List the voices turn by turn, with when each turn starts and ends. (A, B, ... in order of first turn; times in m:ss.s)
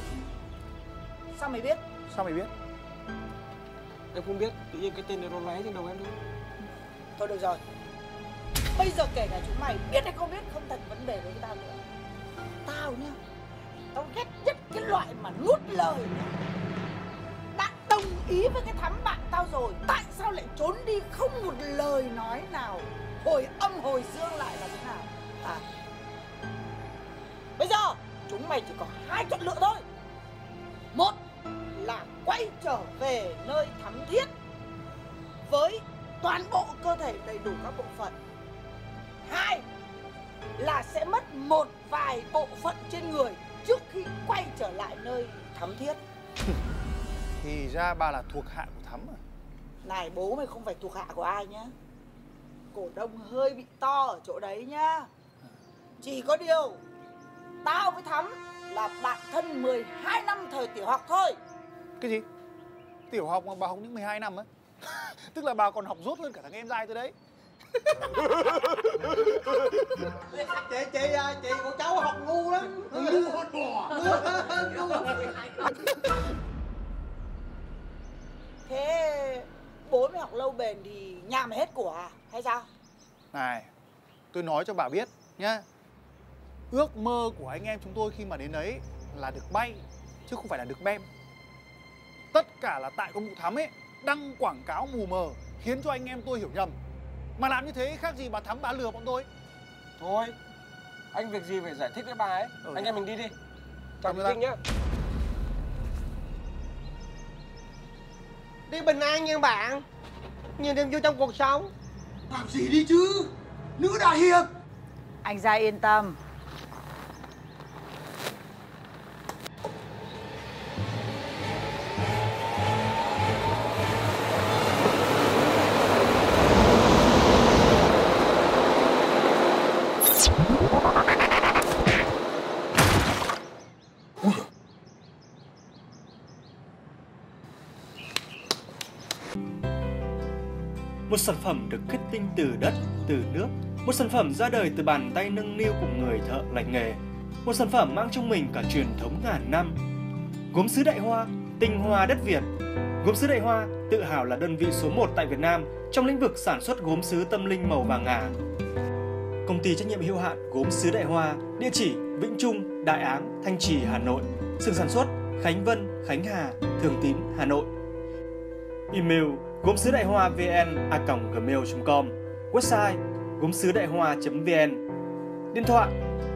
0:01.3-0:01.8 A
0:02.1-0:02.5 B
0:04.1-0:06.2 C
0:07.2-0:07.6 A
0:08.7-0:11.8 A
0:12.6-0:13.2 A
0:13.9-0:16.3 A
0:17.5-0:25.6 A
0:27.6-0:29.8 A
0:30.9-0:31.2 A
0:31.7-0:34.3 A
0:35.5-0:38.2 A
0:39.2-0:39.6 A
0:40.6-0:46.0 A
0:47.4-0:49.2 B
0:49.8-0:51.7 A
0:52.7-0:55.1 A
0:56.0-0:56.8 A
0:57.6-1:01.4 A
1:02.0-1:02.2 B
1:03.1-1:04.5 B
1:05.3-1:07.1 B
1:10.3-1:12.7 D
1:13.9-1:15.1 A
1:18.6-1:22.7 A
1:23.3-1:23.7 B
1:24.3-1:25.6 B
1:26.7-1:31.1 B
1:32.3-1:36.8 B
1:37.4-1:39.3 B
1:40.0-1:40.4 C
1:41.1-1:43.3 C
1:42.6-1:43.0 B
1:44.0-1:44.6 C
1:44.0-1:44.4 B
1:48.7-1:49.8 D
1:50.6-1:51.7 D
1:52.3-1:54.5 E
1:55.2-1:56.2 A
2:21.1-2:29.8 F
2:30.5-2:32.5 F
2:33.0-2:38.4 F
2:39.4-2:47.7 F
2:48.9-2:54.8 F
2:55.5-2:55.9 F